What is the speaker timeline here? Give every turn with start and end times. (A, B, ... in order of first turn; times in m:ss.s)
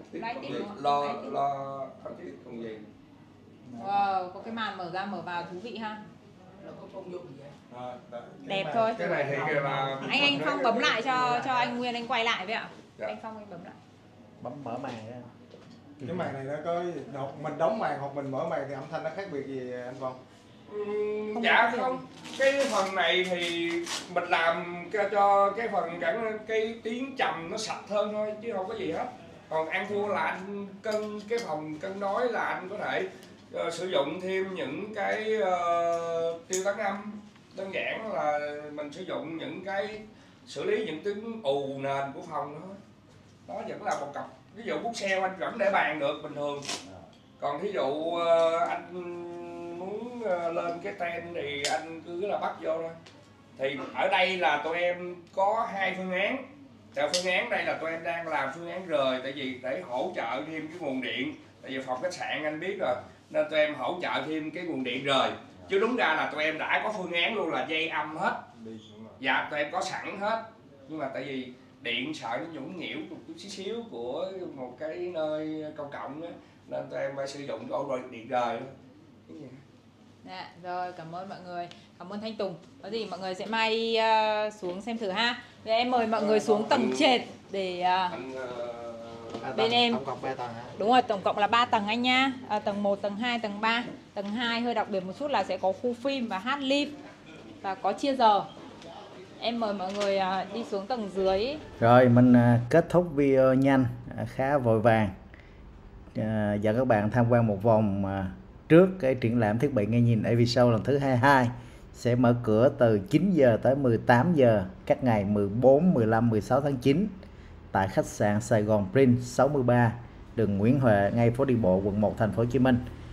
0:00.1-0:02.8 A
0:00.2-0:01.4 B
0:03.8-0:06.0 B
0:07.7-0:10.5 C
0:08.5-0:13.8 B
0:09.0-0:11.6 A
0:14.4-0:15.3 D
0:16.0-0:20.2 C
0:16.0-0:16.3 D
0:20.7-0:42.8 A
0:21.4-0:22.0 B
0:43.5-0:46.7 A
0:47.4-0:53.0 A
0:53.6-0:56.4 A
0:56.9-1:08.4 A
1:08.6-1:09.1 C
1:09.2-1:18.7 A
1:19.3-1:19.6 A
1:20.2-1:28.2 B
1:26.2-1:27.2 A
1:28.1-1:29.4 A
1:29.4-1:30.7 D
1:29.5-1:30.0 B
1:30.8-1:36.9 B
1:37.6-1:38.5 B
1:39.4-1:41.6 B
1:41.8-1:45.2 D
1:46.2-1:57.2 D
1:57.7-2:02.8 D